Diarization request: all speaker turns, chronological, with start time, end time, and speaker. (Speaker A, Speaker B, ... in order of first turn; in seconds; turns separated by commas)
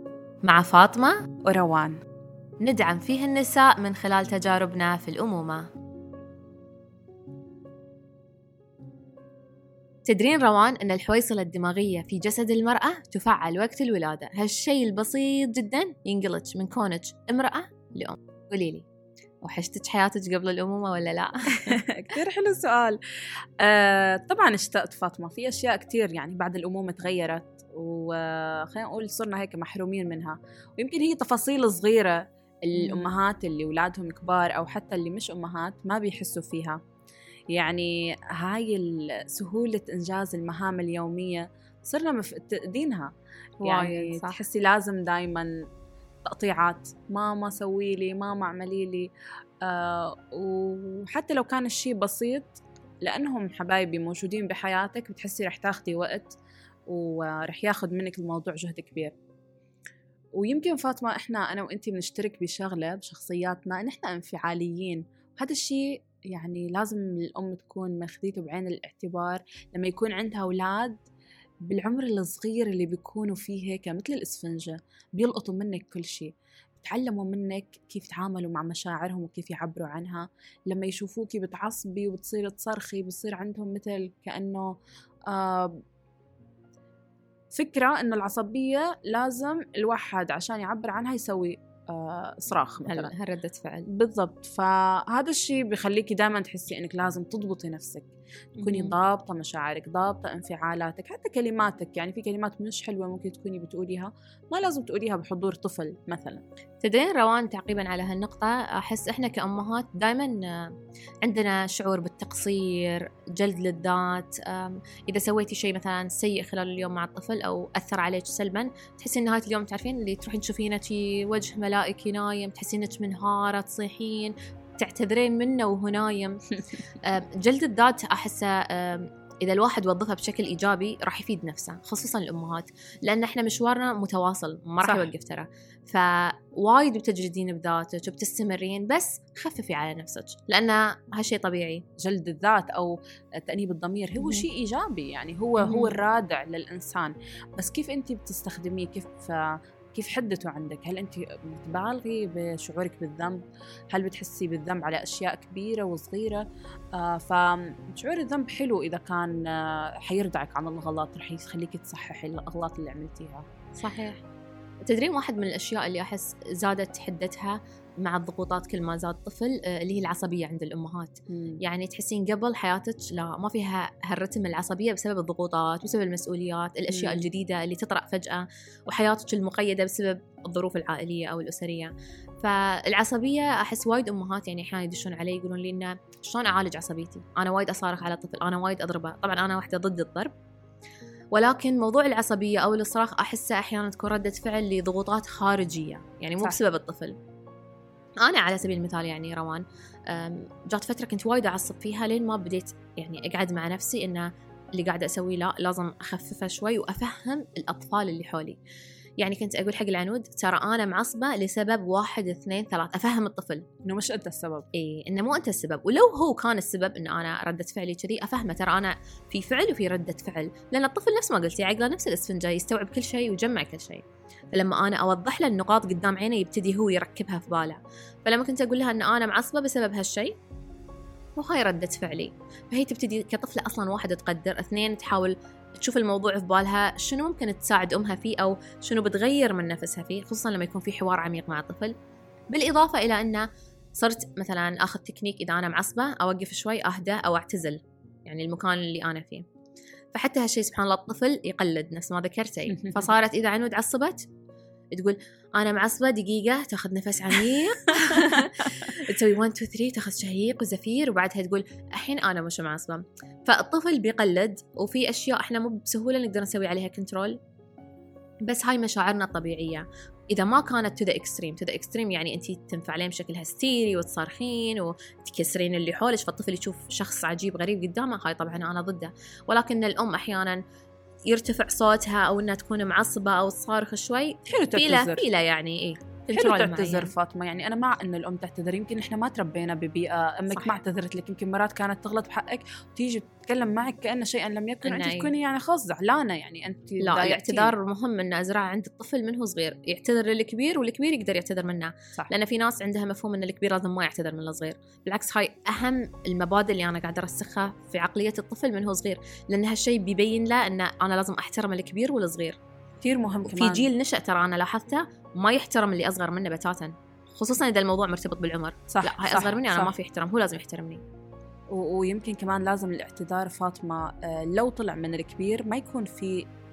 Speaker A: 0.5-1.2, Speaker B: 1.4-2.0, Speaker A: 2.6-5.7, Speaker A: 10.1-18.9, Speaker A: 19.4-21.8, Speaker B: 21.6-23.0, Speaker B: 23.6-32.2, Speaker B: 32.7-36.8, Speaker A: 32.8-33.1, Speaker B: 37.5-43.1, Speaker A: 43.6-44.4, Speaker B: 43.6-45.5, Speaker B: 46.2-49.1, Speaker B: 49.7-56.4, Speaker B: 56.9-59.1, Speaker B: 60.4-71.0, Speaker B: 71.7-76.3, Speaker B: 76.8-84.7, Speaker B: 85.3-85.8, Speaker B: 87.5-93.1, Speaker A: 92.9-93.9, Speaker B: 93.9-106.4, Speaker A: 98.6-99.0, Speaker A: 106.8-126.4, Speaker A: 127.0-141.8, Speaker B: 134.8-135.1, Speaker B: 142.0-149.4, Speaker A: 144.2-144.4, Speaker A: 145.6-146.0, Speaker B: 149.9-156.4, Speaker B: 157.0-163.5, Speaker A: 163.8-164.2, Speaker A: 164.8-190.3, Speaker B: 171.3-171.6, Speaker B: 176.9-177.3, Speaker A: 191.3-197.2, Speaker A: 198.2-208.6, Speaker A: 209.2-213.7, Speaker B: 213.8-214.7, Speaker A: 214.8-230.4, Speaker A: 231.4-241.9, Speaker A: 242.5-243.5, Speaker A: 244.0-249.4, Speaker A: 250.2-254.2, Speaker B: 252.7-253.1, Speaker A: 254.9-267.4, Speaker B: 257.9-258.5, Speaker A: 268.5-280.6, Speaker A: 281.3-287.1, Speaker B: 284.5-285.2, Speaker B: 286.3-297.8, Speaker A: 290.5-290.8, Speaker A: 294.9-295.4, Speaker A: 297.0-312.6, Speaker B: 313.0-313.9, Speaker A: 313.5-321.0, Speaker B: 318.9-319.9, Speaker B: 321.8-326.4